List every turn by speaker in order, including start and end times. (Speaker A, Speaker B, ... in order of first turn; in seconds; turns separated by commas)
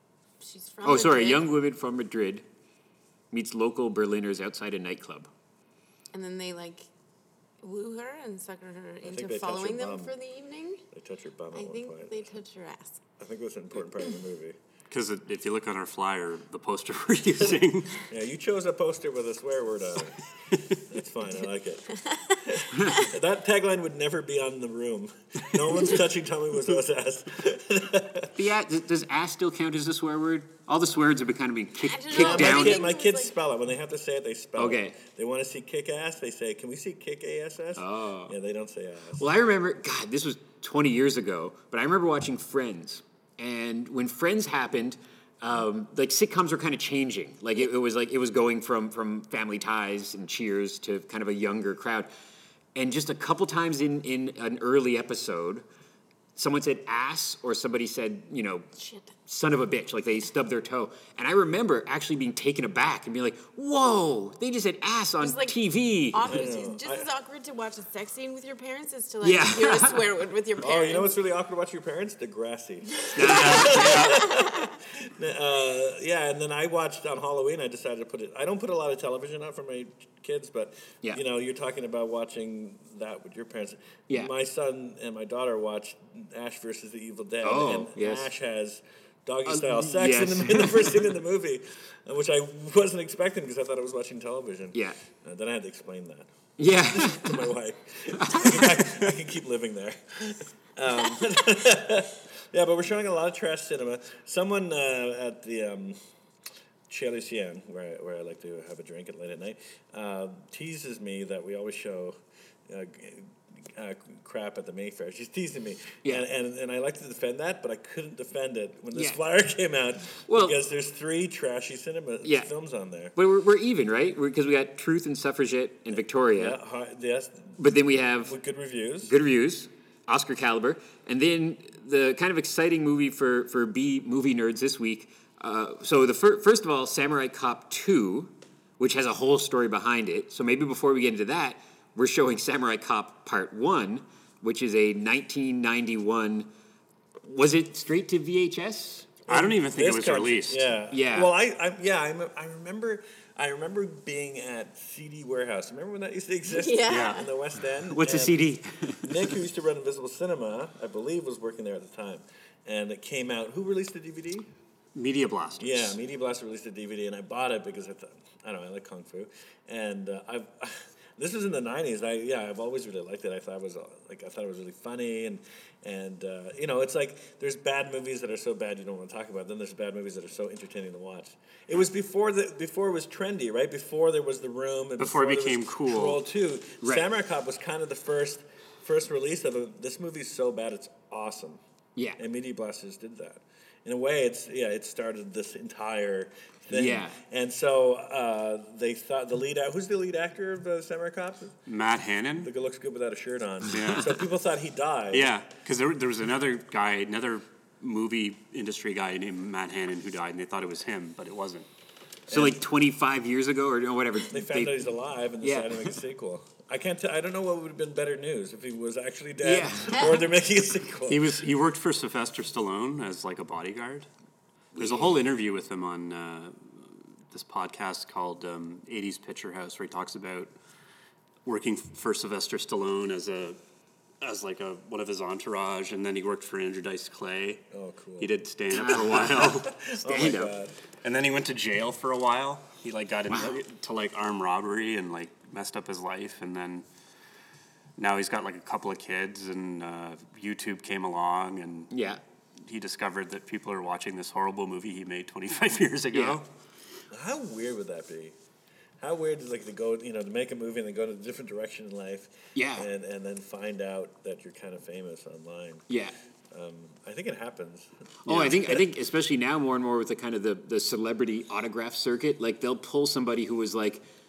Speaker A: 0.4-1.5, Speaker B: 0.8-2.5, Speaker B: 3.3-5.3, Speaker A: 6.1-6.9, Speaker A: 7.6-10.8, Speaker C: 9.0-10.1, Speaker C: 10.9-12.4, Speaker A: 11.5-13.0, Speaker C: 13.2-14.6, Speaker D: 14.9-18.0, Speaker C: 18.1-20.2, Speaker C: 20.9-21.9, Speaker A: 21.9-23.1, Speaker C: 22.4-28.3, Speaker B: 28.4-32.9, Speaker A: 31.8-33.3, Speaker C: 32.1-39.3, Speaker B: 34.6-35.0, Speaker B: 37.8-38.4, Speaker B: 39.2-52.1, Speaker B: 52.8-55.6, Speaker B: 56.4-58.7, Speaker A: 58.8-59.1, Speaker B: 59.3-66.4, Speaker A: 65.2-71.1, Speaker C: 66.3-67.1, Speaker B: 69.2-70.1, Speaker C: 70.6-106.0, Speaker B: 73.1-74.2, Speaker A: 73.2-74.7, Speaker B: 87.4-88.3, Speaker B: 89.5-91.1, Speaker B: 96.6-97.5, Speaker B: 98.1-99.0, Speaker C: 106.9-123.1, Speaker B: 118.9-119.2, Speaker B: 120.3-120.6, Speaker B: 122.2-122.5, Speaker B: 123.2-126.6, Speaker C: 125.9-127.6, Speaker B: 127.6-128.3, Speaker C: 128.2-129.1, Speaker B: 129.0-146.5, Speaker B: 147.2-149.2, Speaker D: 149.3-150.7, Speaker C: 149.3-158.4, Speaker B: 150.9-151.3, Speaker A: 156.5-157.3, Speaker D: 156.9-157.2, Speaker B: 157.9-159.3, Speaker C: 159.0-164.5, Speaker D: 164.9-166.0, Speaker C: 165.6-191.6, Speaker D: 185.0-186.2, Speaker C: 192.2-201.6, Speaker B: 196.7-197.2, Speaker D: 201.7-202.5, Speaker C: 202.4-205.3, Speaker D: 203.7-204.2, Speaker D: 205.1-211.7, Speaker C: 212.3-212.6, Speaker B: 212.3-214.9, Speaker C: 214.3-221.4, Speaker B: 215.4-215.9, Speaker B: 219.4-220.3, Speaker D: 221.1-224.1, Speaker B: 224.8-225.2, Speaker D: 224.8-226.8, Speaker D: 227.3-230.5, Speaker D: 231.4-233.6, Speaker D: 234.2-237.6, Speaker C: 237.7-238.3, Speaker D: 238.2-239.7, Speaker B: 238.7-240.5, Speaker C: 239.0-240.7, Speaker D: 241.0-246.9, Speaker B: 243.3-243.6, Speaker D: 248.0-251.9, Speaker B: 251.9-252.2, Speaker D: 252.6-256.5, Speaker B: 256.1-256.4, Speaker C: 257.1-258.4, Speaker C: 259.0-265.9, Speaker B: 262.6-262.9, Speaker B: 265.9-266.1, Speaker C: 266.5-268.9, Speaker B: 268.3-274.0